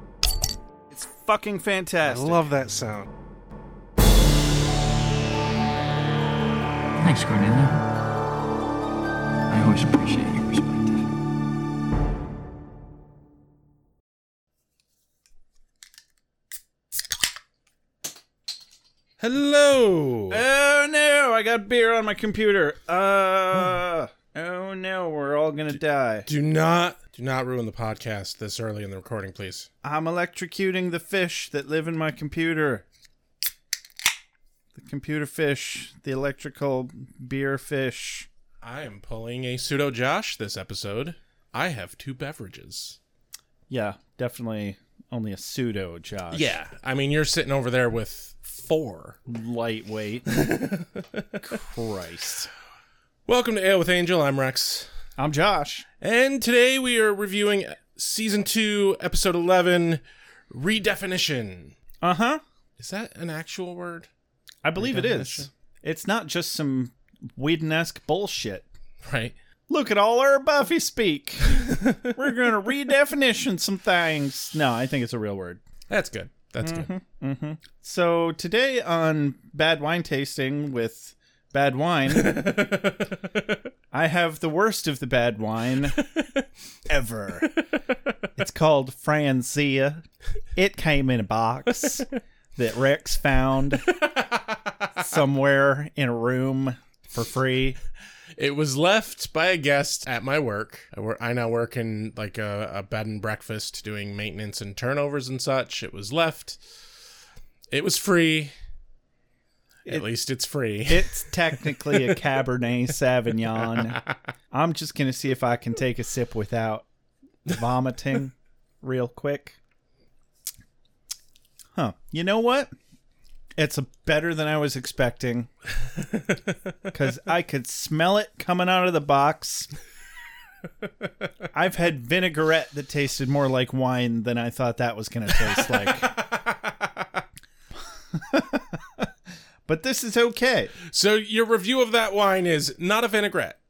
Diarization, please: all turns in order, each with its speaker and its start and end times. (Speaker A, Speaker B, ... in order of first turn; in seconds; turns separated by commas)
Speaker A: 0.9-2.4, Speaker B: 2.0-3.1, Speaker C: 7.0-7.8, Speaker C: 9.5-11.0, Speaker B: 19.2-20.4, Speaker A: 20.3-26.3, Speaker B: 26.3-29.7, Speaker A: 29.8-32.8, Speaker A: 34.8-38.3, Speaker B: 38.6-43.0, Speaker A: 43.7-46.5, Speaker B: 46.3-49.2, Speaker A: 49.3-50.3, Speaker B: 50.3-51.4, Speaker A: 51.4-52.5, Speaker B: 53.3-54.9, Speaker A: 55.2-55.9, Speaker B: 56.0-61.8, Speaker A: 62.0-62.4, Speaker B: 62.8-64.1, Speaker A: 64.6-68.7, Speaker B: 64.8-65.5, Speaker B: 69.0-69.4, Speaker A: 69.7-75.6, Speaker B: 71.6-72.1, Speaker B: 75.9-76.9, Speaker A: 76.6-82.6, Speaker B: 82.1-83.6, Speaker A: 83.9-86.0, Speaker A: 86.9-87.5, Speaker B: 87.4-87.8, Speaker A: 88.4-90.0, Speaker A: 90.5-93.9, Speaker B: 93.9-94.6, Speaker A: 95.0-97.8, Speaker B: 98.4-106.6, Speaker B: 107.7-108.5, Speaker B: 109.9-112.2, Speaker A: 110.9-116.8, Speaker B: 113.6-114.0, Speaker A: 117.5-119.6, Speaker A: 121.8-122.7, Speaker A: 123.6-125.5, Speaker B: 126.1-126.4, Speaker A: 126.9-129.7, Speaker A: 131.5-136.1, Speaker B: 135.4-137.2, Speaker A: 138.2-139.1, Speaker A: 139.7-140.7, Speaker B: 140.9-143.6